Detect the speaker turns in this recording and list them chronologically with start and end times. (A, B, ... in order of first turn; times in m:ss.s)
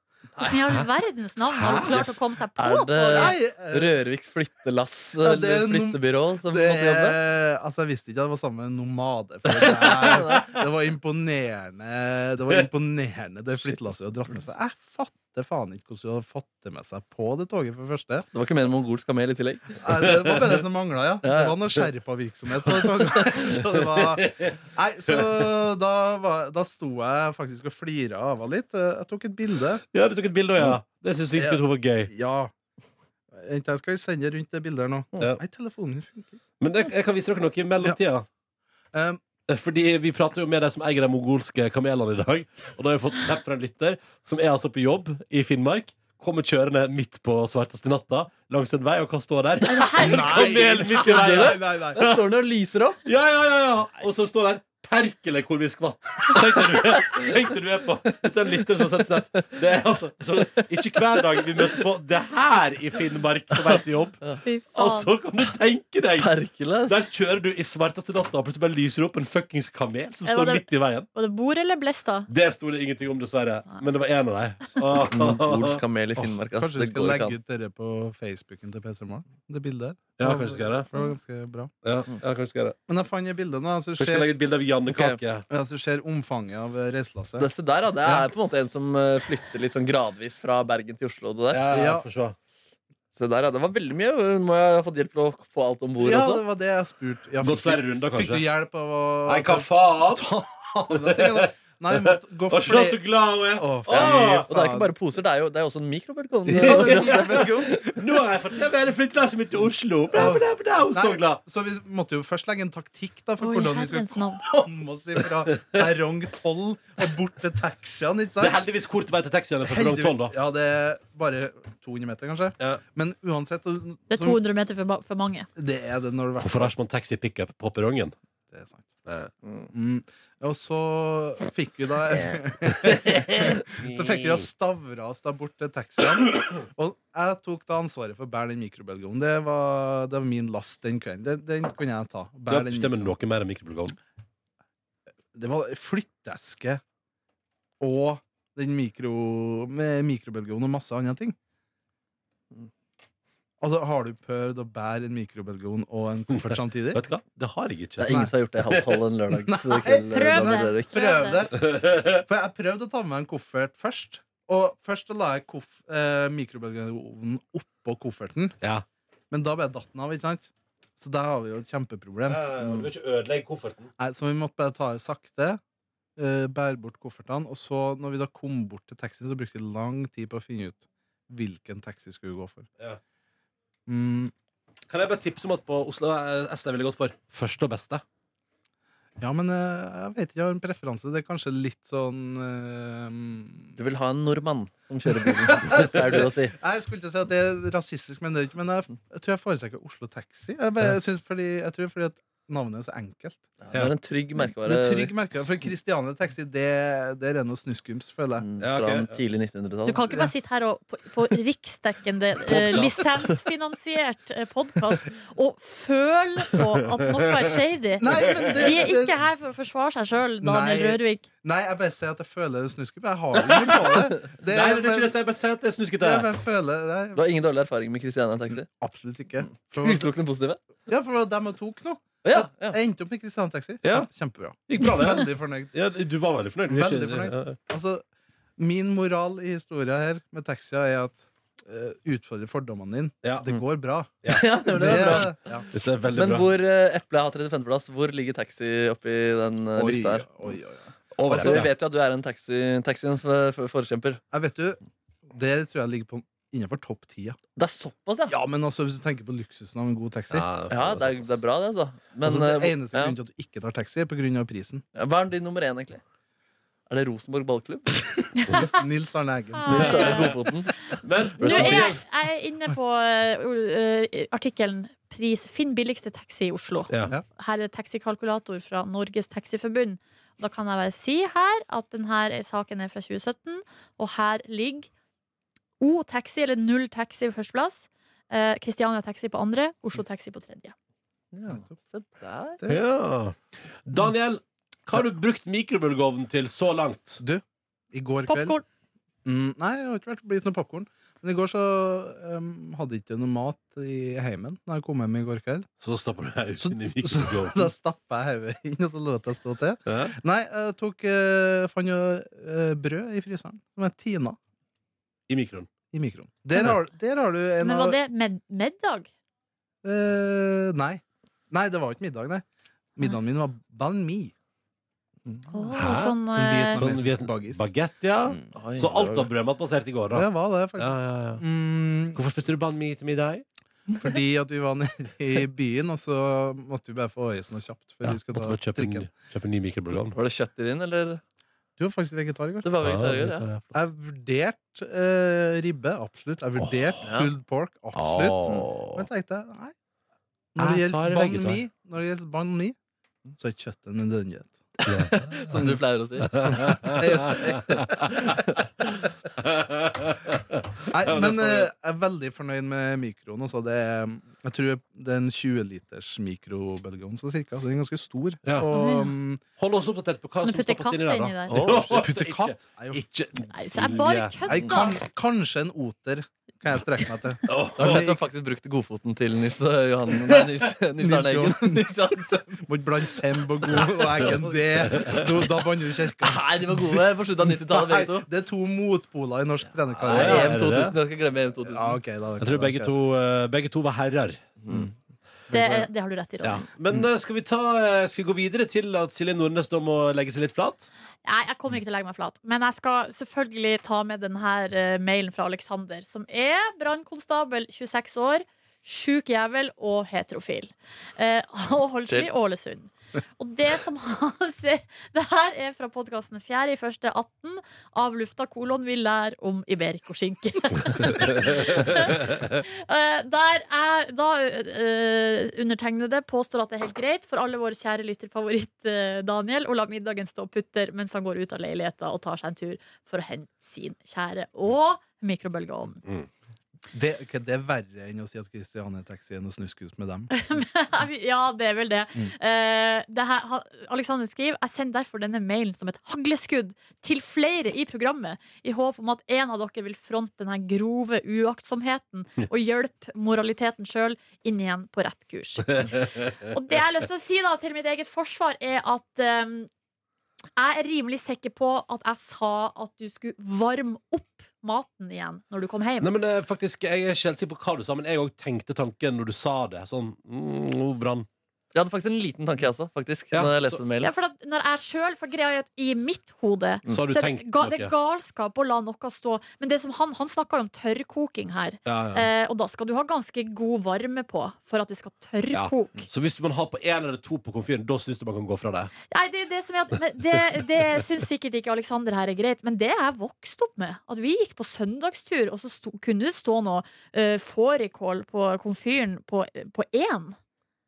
0:00.4-0:03.4 A
0:01.5-0:02.0 B
0:02.6-0:07.2 C
0:03.1-0:04.0 D
0:05.2-0:18.3 D
0:09.6-0:10.5 C
0:18.3-0:20.1 C
0:19.8-0:29.8 D
0:21.2-0:21.8 C
0:23.1-0:23.6 C
0:23.8-0:24.6 B
0:29.9-0:32.1 B
0:31.4-0:32.5 D
0:33.3-0:36.4 D
0:36.6-0:38.3 B
0:38.9-0:39.2 D
0:39.5-0:52.2 B
0:49.6-0:50.8 A
0:50.0-0:52.1 D
0:51.0-0:53.0 C
0:53.0-1:06.3 B
1:04.4-1:05.1 A
1:06.2-1:07.1 C
1:06.9-1:11.1 B
1:10.2-1:12.3 A
1:12.3-1:15.8 B
1:14.9-1:17.4 C
1:16.2-1:21.7 D
1:20.2-1:20.9 B
1:21.8-1:22.8 B
1:22.9-1:24.4 D
1:24.0-1:25.4 B
1:24.9-1:25.2 C
1:25.5-1:27.5 D
1:27.4-1:31.6 C
1:31.5-1:32.4 B
1:31.7-1:32.1 D
1:33.2-1:36.4 C
1:36.0-1:44.9 D
1:37.4-1:38.4 B
1:39.3-1:40.2 B
1:40.9-1:41.5 B
1:42.0-1:44.5 B
1:44.0-1:47.7 C
1:46.5-1:47.8 D
1:46.5-1:51.4 B
1:50.1-1:58.6 D
1:53.4-1:54.4 A
1:58.4-2:00.3 B
1:59.6-2:04.4 D
2:04.1-2:05.5 A
2:05.6-2:06.7 D
2:06.4-2:08.2 B
2:08.5-2:08.9 D
2:09.0-2:09.3 B
2:09.7-2:23.1 D
2:12.9-2:14.5 B
2:22.5-2:24.0 B
2:25.3-2:26.8 D
2:27.8-2:31.4 D
2:33.6-2:37.0 D
2:36.4-2:39.0 B
2:38.0-2:41.0 C
2:38.1-2:38.3 D
2:39.4-2:48.6 D
2:40.1-2:41.4 A
2:41.6-2:42.2 B
2:49.3-2:52.5 D
2:52.3-2:53.9 B
2:54.0-2:55.6 D
2:56.2-3:02.7 D
3:03.9-3:04.3 D
3:04.9-3:08.0 B
3:09.2-3:13.8 D
3:13.8-3:16.6 C
3:15.3-3:23.5 D
3:23.6-3:25.1 C
3:24.4-3:28.5 D
3:28.4-3:30.0 C
3:28.6-3:29.2 B
3:29.9-3:41.3 A
3:38.0-3:39.2 D
3:38.2-3:38.7 B
3:40.4-3:45.2 D
3:43.4-3:46.3 B
3:46.0-3:47.3 D
3:47.2-3:48.7 C
3:48.5-3:50.1 D
3:49.5-3:50.6 C
3:50.9-3:55.7 D
3:52.2-3:52.8 C
3:53.8-3:54.1 B
3:54.7-3:57.6 B
3:56.7-3:58.0 D
3:58.6-4:05.7 D
4:04.2-4:06.5 B
4:04.3-4:05.3 C
4:06.1-4:10.3 C
4:09.7-4:11.7 D
4:11.2-4:11.7 B
4:11.3-4:14.2 C
4:14.3-4:17.4 D
4:17.6-4:18.4 C
4:18.3-4:20.5 D
4:20.3-4:21.4 B
4:20.7-4:23.2 C
4:22.2-4:24.8 D
4:25.0-4:26.0 C
4:26.9-4:28.3 C
4:28.4-4:28.8 A
4:28.5-4:30.3 D
4:29.6-4:30.4 A
4:29.7-4:32.0 C
4:29.7-4:30.4 B
4:30.9-4:32.0 B
4:31.4-4:44.9 A
4:36.9-4:37.1 B
4:45.8-4:50.7 A
4:51.3-4:52.6 C
4:52.6-4:52.8 D
4:52.7-4:57.2 B
4:57.2-4:58.6 D
4:58.3-4:58.6 A
4:59.2-5:05.7 D
5:05.8-5:07.7 B
5:06.6-5:14.4 D
5:09.9-5:10.2 B
5:15.3-5:15.7 B
5:15.9-5:18.0 D
5:17.6-5:19.1 A
5:19.8-5:22.4 D
5:23.0-5:24.3 D
5:25.5-5:26.8 A
5:25.7-5:26.2 B
5:26.2-5:27.7 D
5:26.7-5:30.3 B
5:28.5-5:29.3 C
5:30.1-5:32.2 D
5:30.8-5:31.4 B
5:32.1-5:33.4 B
5:34.0-5:39.1 D
5:38.0-5:40.2 B
5:39.9-5:41.2 C
5:41.8-5:42.8 D
5:42.6-5:43.5 C
5:42.8-5:43.6 B
5:43.7-5:49.7 D
5:46.6-5:46.9 B
5:47.0-5:47.3 C
5:48.0-5:49.1 B
5:48.4-5:48.7 C
5:50.6-5:52.8 D
5:50.6-5:51.6 B
5:53.4-5:54.6 D
5:54.9-5:55.7 B
5:54.9-5:57.6 C
5:55.5-5:55.8 D
5:56.3-5:58.4 B
5:56.3-5:58.3 D
5:58.2-5:58.6 C
5:59.4-6:01.7 B
6:00.9-6:09.4 D
6:08.7-6:09.1 A
6:09.6-6:14.3 B
6:10.4-6:11.7 A
6:11.5-6:12.0 C
6:11.6-6:13.0 D
6:13.5-6:15.0 A
6:14.4-6:18.2 D
6:17.5-6:18.1 B
6:17.8-6:22.7 C
6:21.0-6:21.9 D
6:22.6-6:30.8 D
6:23.7-6:25.4 C
6:24.9-6:25.3 B
6:26.2-6:28.3 C
6:30.0-6:32.0 C
6:30.1-6:30.9 B
6:31.6-6:32.9 D
6:32.4-6:34.5 B
6:35.5-6:36.6 A
6:35.5-6:35.9 D
6:36.4-6:40.9 B
6:41.2-7:16.0 A
7:16.9-7:20.3 D
7:20.3-7:39.7 A
7:35.8-7:36.2 B
7:40.6-7:46.1 A
7:46.0-7:51.3 B
7:51.7-7:54.1 C
7:53.3-7:53.8 B
7:54.0-8:06.1 A
7:56.9-7:57.9 B
8:01.9-8:02.3 B
8:05.5-8:08.9 B
8:09.1-8:20.4 A